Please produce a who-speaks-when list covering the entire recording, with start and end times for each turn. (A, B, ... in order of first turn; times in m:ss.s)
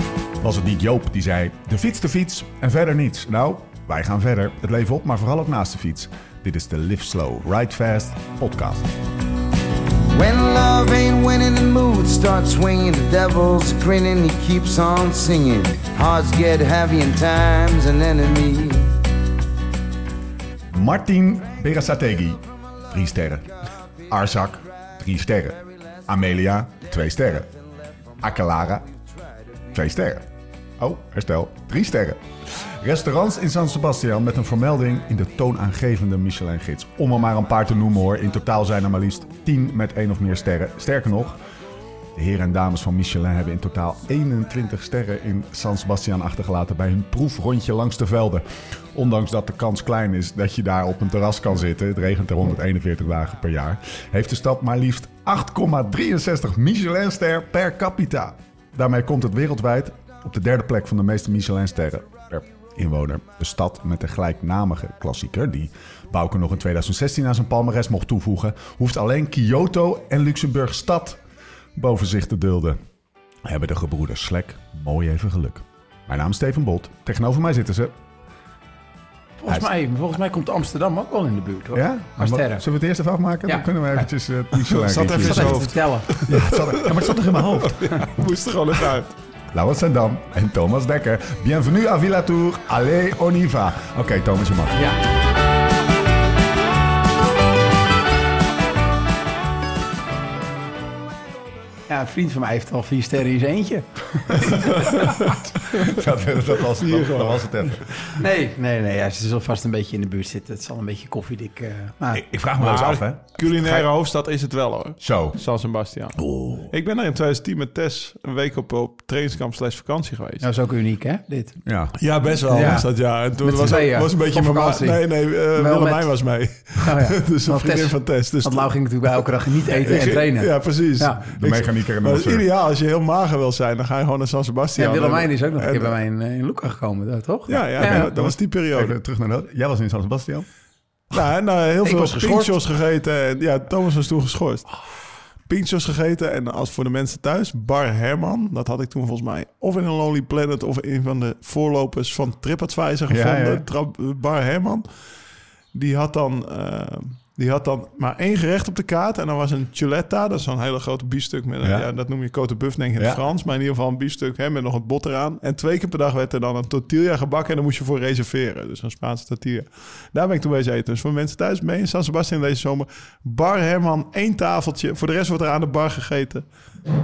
0:00.4-0:09.0 A
0:10.1-0:19.0 B
0:20.7-0:23.5 A
0:24.1-0:27.5 A
0:27.8-0:28.2 B
0:28.2-0:28.8 A
0:29.7-0:41.4 A
0:42.1-1:11.2 A
1:11.8-1:12.8 A
1:13.4-1:18.0 A
1:19.4-1:22.6 C
1:21.7-1:25.7 A
1:23.4-1:23.8 C
1:24.6-1:29.2 D
1:25.2-1:26.2 C
1:26.2-1:28.1 A
1:29.5-1:34.9 A
1:41.9-1:44.9 C
1:44.4-1:45.9 D
1:45.7-1:47.9 A
1:46.8-1:47.7 D
1:48.1-1:52.2 C
1:52.1-1:53.9 A
1:52.6-2:00.4 D
1:55.0-1:55.4 A
1:56.2-1:56.7 A
2:00.4-2:01.6 C
2:01.6-2:01.9 A
2:02.0-2:08.8 D
2:02.5-2:06.2 C
2:06.8-2:11.2 C
2:09.7-2:15.9 D
2:11.3-2:12.5 A
2:14.8-2:18.1 C
2:17.5-2:20.5 A
2:17.5-2:19.0 D
2:21.1-2:24.7 D
2:21.8-2:22.6 C
2:25.5-2:34.9 D
2:33.1-2:33.6 A
2:35.7-2:56.5 D
2:41.6-2:41.9 A
2:43.0-2:43.2 A